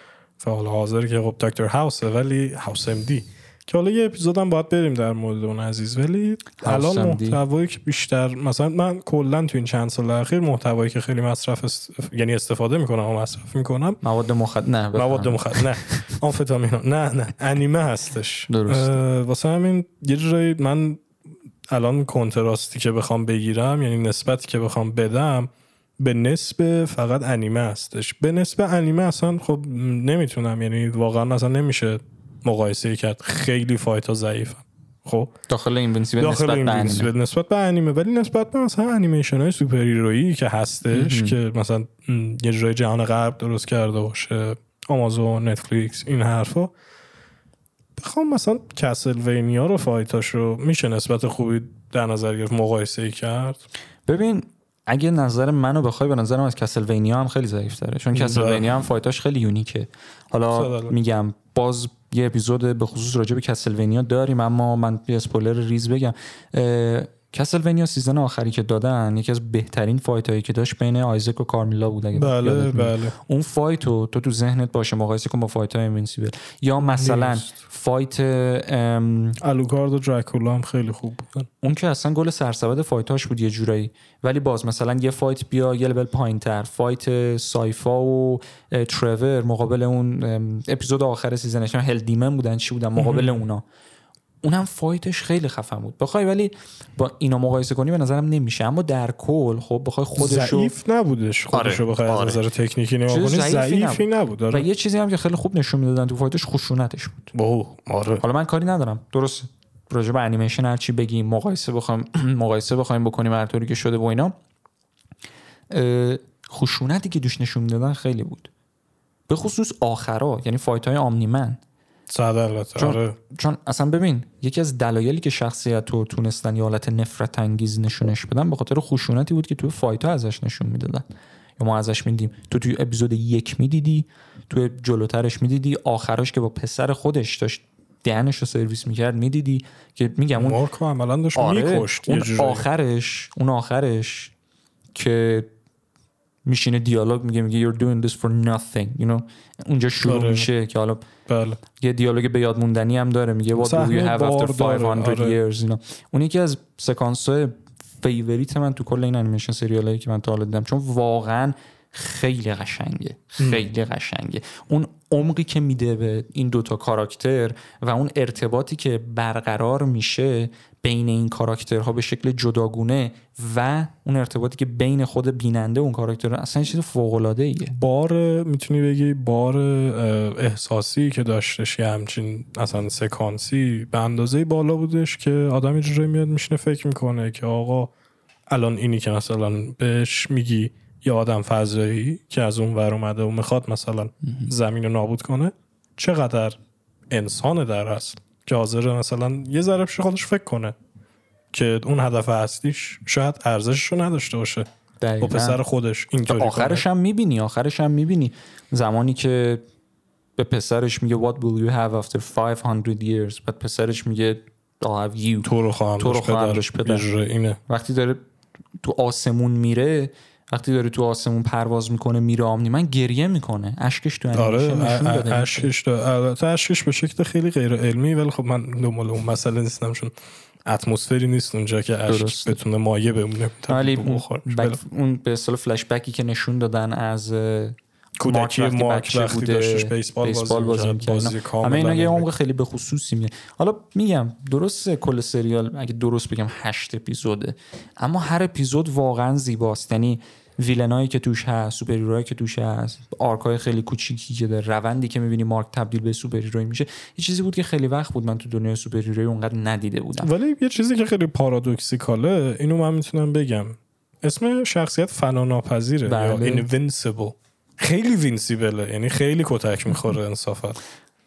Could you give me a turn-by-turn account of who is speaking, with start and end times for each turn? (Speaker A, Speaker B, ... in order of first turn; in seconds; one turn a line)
Speaker A: 0.4-14.0
Speaker B: 6.6-7.4
Speaker B: 14.0-16.1
Speaker A: 14.9-21.0
Speaker B: 18.5-19.0
Speaker A: 21.7-35.3
Speaker B: 35.5-37.1
Speaker A: 36.2-46.7
Speaker B: 40.9-41.4
Speaker A: 48.0-53.6
Speaker B: 54.1-79.4
Speaker A: 58.1-58.8
Speaker A: 60.5-60.9
Speaker A: 72.1-73.2
Speaker A: 76.8-77.5
Speaker A: 79.4-81.5
Speaker B: 81.6-93.6
Speaker A: 93.0-93.4
Speaker B: 94.4-100.7
Speaker A: 100.2-104.7
Speaker B: 101.5-102.4
Speaker B: 103.1-107.3
Speaker A: 107.3-108.2
Speaker B: 108.2-114.3
Speaker B: 115.7-118.5
Speaker B: 119.3-121.6
Speaker A: 122.1-123.2
Speaker B: 122.8-131.0
Speaker B: 131.6-140.6
Speaker A: 140.4-142.7
Speaker B: 141.4-144.3
Speaker B: 144.9-145.5
Speaker B: 146.4-151.1
Speaker A: 150.0-150.5
Speaker A: 151.3-151.6
Speaker B: 151.8-177.8
Speaker A: 153.6-155.4
Speaker A: 163.4-163.7
Speaker A: 177.7-187.9
Speaker A: 188.5-196.6
Speaker A: 197.1-200.8
Speaker A: 201.5-204.7
Speaker B: 205.0-205.6
Speaker A: 205.2-206.8
Speaker B: 206.2-209.6
Speaker B: 210.4-217.1
Speaker A: 215.4-217.6
Speaker B: 217.7-218.2
Speaker B: 218.8-225.7
Speaker A: 224.3-230.1
Speaker A: 230.7-234.8
Speaker B: 232.1-232.6
Speaker B: 233.7-260.3
Speaker A: 238.2-242.3
Speaker A: 260.2-270.8
Speaker B: 266.1-266.7